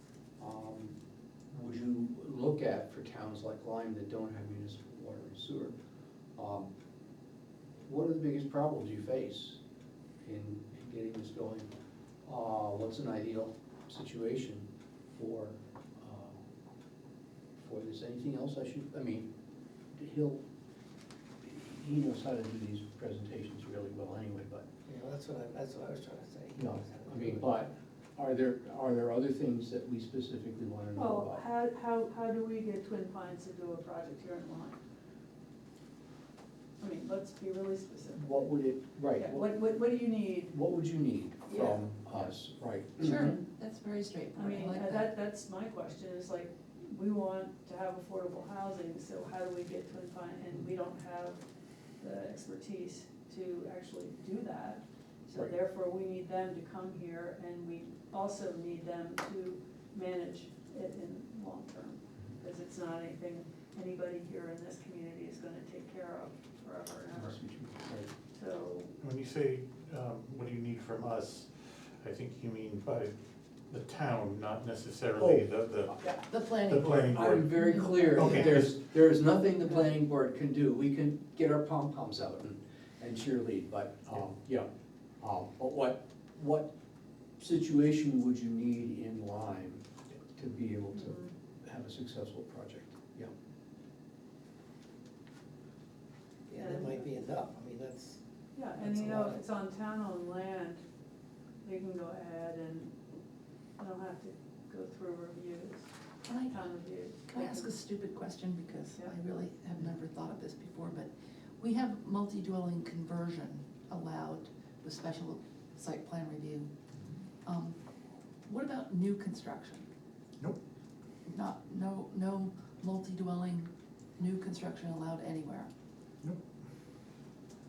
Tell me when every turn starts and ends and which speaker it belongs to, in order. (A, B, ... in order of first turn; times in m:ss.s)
0:00.4-0:01.0 A
0:01.5-0:05.8 A
0:06.4-0:06.7 A
0:07.8-0:09.6 A
0:10.2-0:11.7 A
0:12.2-0:16.4 A
0:17.6-0:19.3 A
0:19.9-0:20.4 A
0:21.4-0:24.7 A
0:24.9-0:27.6 B
0:26.6-0:31.4 A
0:31.0-0:34.8 C
0:36.8-0:38.5 C
0:38.2-0:39.5 A
0:39.2-0:40.6 C
0:40.5-0:43.4 A
0:41.5-0:41.9 C
0:43.0-0:45.1 D
0:44.4-0:51.4 C
0:52.0-1:07.4 C
1:07.1-1:08.1 A
1:08.3-1:08.9 C
1:09.0-1:13.2 E
1:13.7-1:15.9 E
1:15.2-1:16.2 A
1:16.2-1:18.6 D
1:16.6-1:17.5 E
1:16.8-1:24.7 A
1:18.1-1:18.8 E
1:25.2-1:26.7 A
1:27.4-1:33.3 A
1:30.9-1:31.3 C
1:36.5-1:38.2 B
1:36.6-1:37.0 C
1:38.5-1:40.8 C
1:38.8-1:39.4 B
1:41.6-1:42.9 C
1:43.8-1:45.9 C
1:46.2-1:46.6 D
1:46.5-1:47.7 C
1:47.3-1:56.7 D
1:57.4-1:57.8 D
1:58.4-1:59.9 D
2:01.3-2:05.7 D